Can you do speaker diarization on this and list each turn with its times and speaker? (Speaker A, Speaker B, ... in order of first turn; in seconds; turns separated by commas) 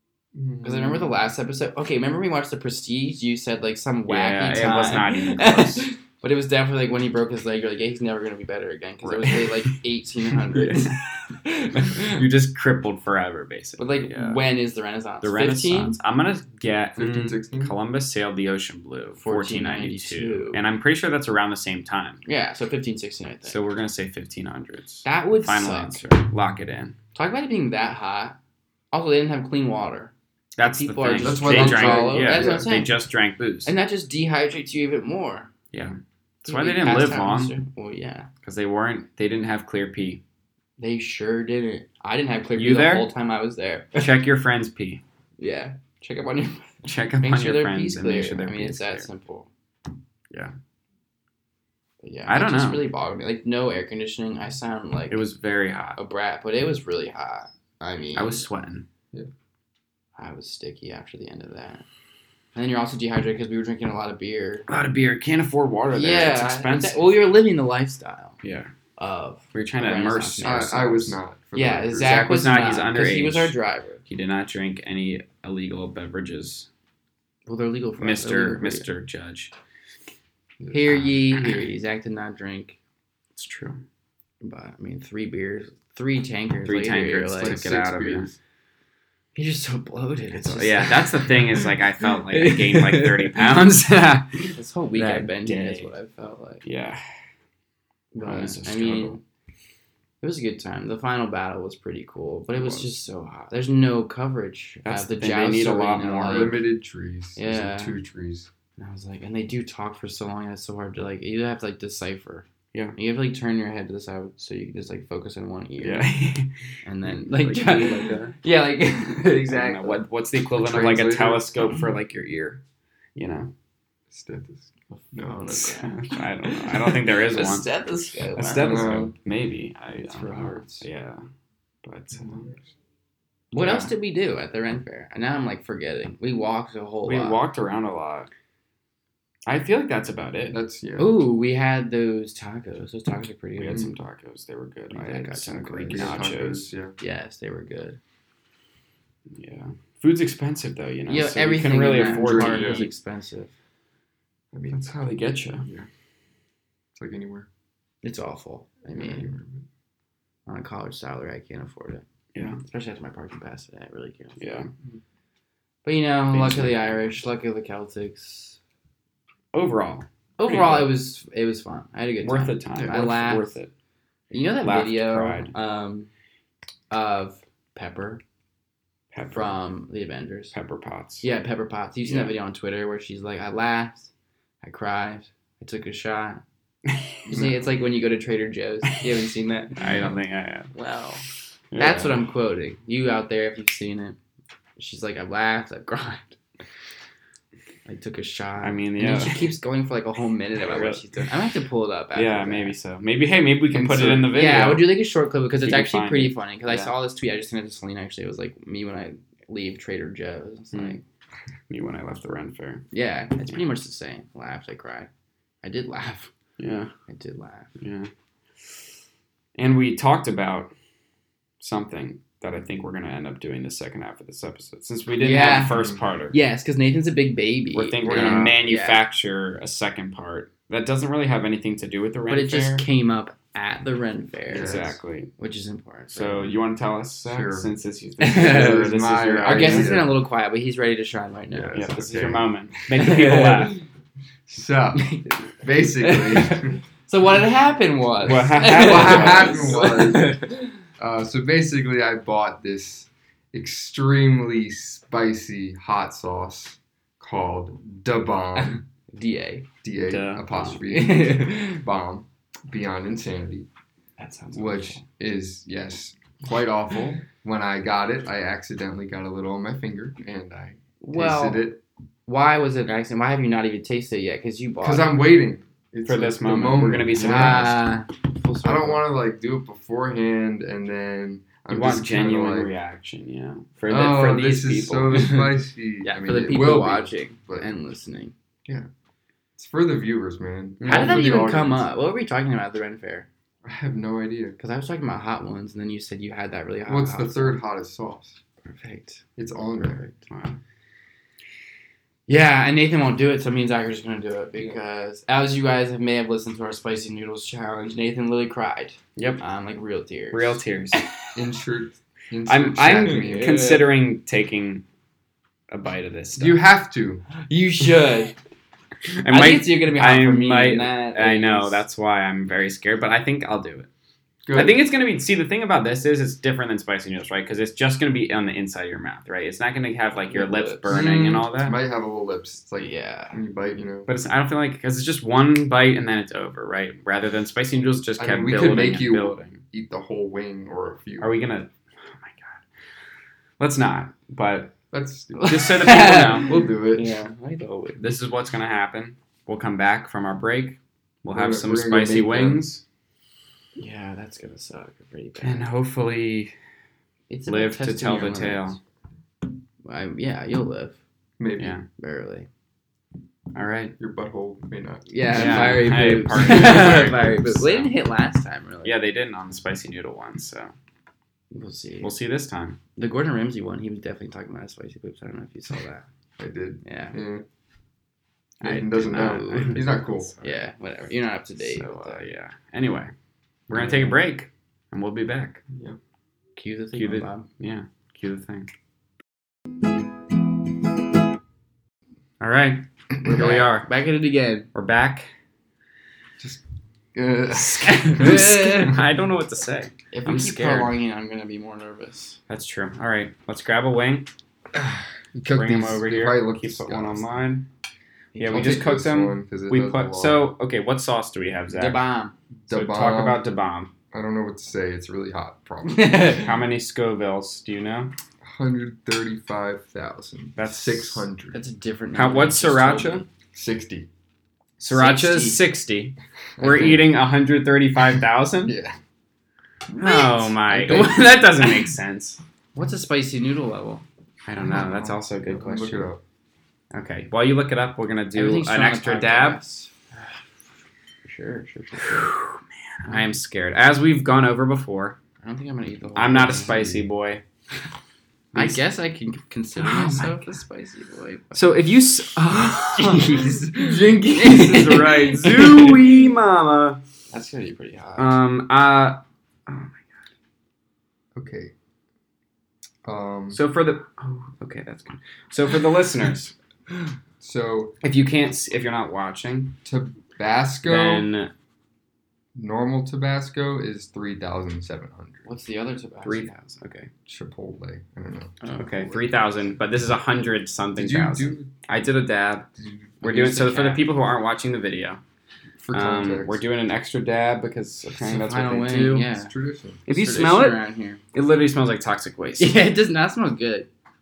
Speaker A: 0.3-1.2, Speaker B: 0.6-12.2, Speaker C: 4.1-5.9, Speaker C: 9.0-9.7, Speaker C: 10.5-11.0, Speaker C: 11.7-14.4, Speaker B: 13.8-16.0, Speaker C: 15.2-22.2, Speaker A: 16.9-17.7, Speaker B: 19.2-20.6, Speaker B: 22.2-23.6, Speaker C: 23.4-26.9, Speaker B: 25.0-26.1, Speaker B: 27.1-28.4, Speaker B: 28.9-30.1, Speaker C: 30.6-33.7, Speaker B: 30.7-32.9, Speaker A: 31.2-32.7, Speaker B: 33.6-35.5, Speaker C: 35.7-37.5, Speaker B: 36.4-38.3, Speaker C: 38.4-40.2, Speaker B: 40.8-44.1, Speaker C: 42.5-43.1, Speaker C: 43.9-45.0, Speaker B: 45.4-49.5, Speaker C: 46.8-49.1, Speaker B: 52.0-55.2, Speaker C: 52.3-52.9, Speaker C: 55.1-56.0, Speaker B: 56.0-58.4, Speaker C: 58.1-58.8, Speaker B: 60.1-61.9, Speaker B: 62.5-64.7, Speaker C: 64.7-67.2, Speaker B: 65.9-68.4, Speaker C: 68.4-68.7, Speaker B: 69.0-70.8, Speaker C: 69.5-71.2, Speaker A: 70.4-72.2, Speaker B: 71.5-74.0, Speaker C: 72.0-73.5, Speaker C: 74.1-76.7, Speaker B: 77.5-78.9, Speaker C: 78.0-79.5, Speaker A: 80.6-80.9, Speaker B: 80.7-82.8, Speaker C: 81.1-81.6, Speaker C: 83.3-83.8, Speaker B: 84.4-87.8, Speaker C: 86.6-88.3, Speaker A: 87.4-88.3, Speaker B: 89.3-93.5, Speaker C: 90.3-95.9, Speaker B: 94.5-96.6, Speaker C: 96.6-97.0, Speaker B: 98.1-99.2, Speaker C: 98.2-99.2, Speaker B: 100.2-106.6, Speaker C: 102.5-102.9, Speaker C: 104.8-106.6, Speaker A: 106.3-108.5, Speaker B: 107.3-108.0, Speaker B: 108.8-116.1, Speaker C: 115.8-116.5, Speaker B: 116.8-120.0, Speaker C: 117.2-118.3, Speaker C: 119.2-122.6, Speaker A: 120.6-121.6, Speaker C: 123.2-123.5, Speaker A: 124.1-125.8, Speaker B: 125.1-129.0, Speaker C: 125.5-127.7, Speaker C: 128.3-131.2, Speaker A: 128.6-129.1, Speaker A: 130.1-130.7, Speaker B: 130.3-130.6, Speaker C: 131.8-132.4, Speaker A: 132.2-132.6, Speaker B: 133.5-137.4, Speaker C: 133.5-133.9, Speaker C: 137.1-138.3, Speaker C: 139.5-140.6, Speaker A: 140.5-141.1, Speaker B: 141.0-143.9, Speaker C: 143.6-146.7, Speaker B: 144.9-146.3, Speaker A: 145.9-147.0, Speaker B: 147.0-148.0, Speaker C: 149.3-152.9, Speaker B: 151.1-153.5, Speaker A: 152.0-152.9, Speaker A: 154.5-155.0, Speaker C: 154.7-155.7, Speaker A: 156.9-157.5, Speaker B: 158.0-159.3, Speaker A: 158.9-159.6, Speaker B: 160.5-162.0, Speaker C: 162.3-162.6, Speaker B: 162.6-164.6, Speaker C: 164.4-164.7, Speaker B: 165.8-168.6, Speaker C: 166.3-167.1, Speaker C: 169.5-170.9, Speaker B: 170.4-173.5, Speaker C: 172.2-173.7, Speaker B: 174.3-176.1, Speaker C: 174.6-175.5, Speaker B: 176.9-178.2, Speaker C: 179.1-179.6, Speaker B: 179.3-180.5, Speaker C: 180.5-181.2, Speaker B: 181.2-184.1, Speaker C: 182.1-182.3, Speaker B: 184.6-186.4, Speaker B: 187.3-189.8, Speaker C: 189.8-190.7, Speaker B: 190.7-191.2, Speaker C: 191.7-192.2, Speaker B: 191.8-194.2, Speaker B: 194.8-196.4, Speaker B: 197.8-202.8, Speaker C: 198.6-199.5, Speaker C: 200.6-201.0, Speaker C: 202.1-205.0, Speaker B: 203.8-211.0, Speaker A: 203.8-204.3, Speaker C: 205.6-206.9, Speaker C: 210.7-211.0, Speaker C: 211.7-212.8, Speaker B: 212.9-215.1, Speaker B: 215.6-216.3, Speaker C: 216.6-216.9, Speaker B: 217.1-217.7, Speaker C: 217.8-218.1, Speaker C: 219.6-220.7, Speaker C: 221.6-226.4, Speaker B: 225.2-229.0, Speaker A: 225.6-226.0, Speaker C: 227.7-232.8, Speaker A: 228.0-228.6, Speaker B: 232.3-236.5, Speaker A: 234.5-234.9, Speaker C: 234.5-235.3, Speaker C: 236.1-239.9, Speaker A: 237.2-237.7, Speaker B: 238.2-238.9, Speaker A: 238.2-240.2, Speaker B: 239.4-241.9, Speaker A: 241.5-242.5, Speaker C: 241.7-243.8, Speaker B: 242.9-243.8, Speaker A: 244.5-246.8, Speaker B: 244.9-245.4, Speaker B: 246.0-250.7, Speaker C: 248.2-249.9, Speaker A: 248.6-250.4, Speaker A: 251.0-258.8, Speaker B: 258.6-259.6, Speaker A: 259.8-263.7, Speaker C: 260.1-260.8, Speaker B: 260.9-261.8, Speaker B: 264.2-265.0, Speaker A: 264.5-271.8, Speaker B: 271.0-271.7, Speaker B: 272.3-275.2, Speaker A: 274.8-277.8, Speaker C: 276.0-277.8, Speaker B: 277.1-279.1, Speaker A: 278.6-282.7, Speaker C: 281.7-285.4, Speaker A: 283.9-287.7, Speaker B: 286.0-288.3, Speaker A: 289.6-291.9, Speaker C: 290.8-291.4, Speaker B: 290.8-293.3, Speaker A: 293.6-294.6, Speaker B: 294.6-297.6, Speaker A: 296.9-298.4, Speaker B: 298.6-299.2, Speaker A: 299.4-300.1, Speaker C: 300.3-300.6, Speaker B: 302.3-311.1, Speaker C: 309.1-309.4, Speaker C: 310.3-311.0, Speaker A: 311.3-313.7, Speaker C: 312.4-314.8, Speaker B: 313.0-313.9, Speaker C: 315.7-316.6, Speaker A: 316.4-317.2, Speaker B: 317.4-318.3, Speaker C: 319.2-323.9, Speaker B: 319.3-321.8, Speaker A: 324.4-324.8, Speaker C: 324.5-331.8, Speaker B: 330.3-331.4, Speaker A: 330.9-334.1, Speaker B: 332.8-333.4, Speaker C: 334.1-339.6, Speaker A: 338.2-341.4, Speaker C: 341.2-342.6, Speaker C: 343.6-344.8, Speaker A: 344.9-347.2, Speaker B: 345.4-348.1, Speaker C: 345.4-346.6, Speaker C: 348.0-352.8, Speaker A: 351.3-352.6, Speaker B: 353.8-355.7, Speaker C: 355.4-356.5, Speaker B: 357.3-358.8, Speaker C: 357.5-358.8, Speaker B: 359.8-361.0, Speaker A: 361.4-361.8, Speaker C: 361.6-361.9, Speaker B: 361.9-362.5, Speaker C: 363.5-363.9, Speaker A: 364.0-366.0, Speaker B: 365.1-368.9, Speaker C: 365.3-367.9, Speaker C: 368.8-370.7, Speaker B: 371.5-372.1, Speaker C: 372.0-372.8, Speaker B: 372.9-376.0, Speaker A: 376.4-377.4, Speaker B: 376.8-377.1, Speaker C: 378.6-380.6, Speaker A: 378.6-380.3, Speaker B: 379.0-382.2, Speaker C: 381.6-383.1, Speaker C: 383.7-385.6, Speaker A: 385.7-386.0, Speaker B: 386.6-387.5, Speaker C: 386.9-388.7, Speaker C: 392.4-393.9, Speaker B: 393.2-394.7, Speaker C: 394.7-395.3, Speaker A: 397.1-398.6, Speaker C: 397.6-400.9, Speaker B: 397.9-399.0, Speaker B: 400.1-402.4, Speaker C: 402.5-404.3, Speaker A: 404.8-407.3, Speaker C: 405.5-407.6, Speaker B: 408.3-408.8, Speaker C: 408.4-412.0, Speaker A: 408.5-410.5, Speaker B: 411.7-412.3, Speaker A: 412.6-413.5, Speaker C: 412.7-413.9, Speaker A: 414.1-416.5, Speaker B: 415.8-416.5, Speaker C: 416.3-418.1, Speaker A: 418.4-421.6, Speaker C: 420.6-421.3, Speaker B: 421.5-423.2, Speaker C: 422.1-423.2, Speaker A: 423.5-424.1, Speaker C: 424.8-428.7, Speaker B: 424.9-425.6, Speaker A: 426.6-427.2, Speaker A: 428.6-429.0, Speaker C: 429.9-432.4, Speaker B: 429.9-431.9, Speaker B: 432.7-434.0, Speaker C: 434.4-436.1, Speaker A: 434.6-436.2, Speaker C: 436.9-439.6, Speaker B: 438.3-439.9, Speaker B: 441.2-442.4, Speaker C: 442.1-445.2, Speaker B: 445.4-447.1, Speaker C: 446.1-447.4, Speaker C: 448.5-448.8, Speaker B: 448.5-451.6, Speaker C: 449.8-450.6, Speaker C: 451.5-457.0, Speaker B: 452.9-456.0, Speaker A: 453.8-455.1, Speaker B: 457.3-458.3, Speaker C: 458.2-460.0, Speaker A: 461.3-461.7, Speaker A: 463.0-463.6, Speaker C: 463.5-466.5, Speaker A: 467.4-467.9, Speaker C: 468.0-469.8, Speaker A: 469.8-471.3, Speaker C: 470.8-471.5, Speaker A: 472.5-475.4, Speaker B: 475.4-476.6, Speaker C: 476.2-477.1, Speaker A: 477.2-479.4, Speaker C: 478.7-482.7, Speaker A: 480.9-481.7, Speaker A: 482.8-483.1, Speaker B: 483.2-484.1, Speaker C: 483.2-485.2, Speaker A: 485.8-486.6, Speaker C: 485.9-489.3, Speaker B: 488.2-489.5, Speaker A: 489.4-490.0, Speaker C: 490.1-490.8, Speaker B: 490.1-491.2, Speaker C: 491.3-492.8, Speaker B: 492.6-493.9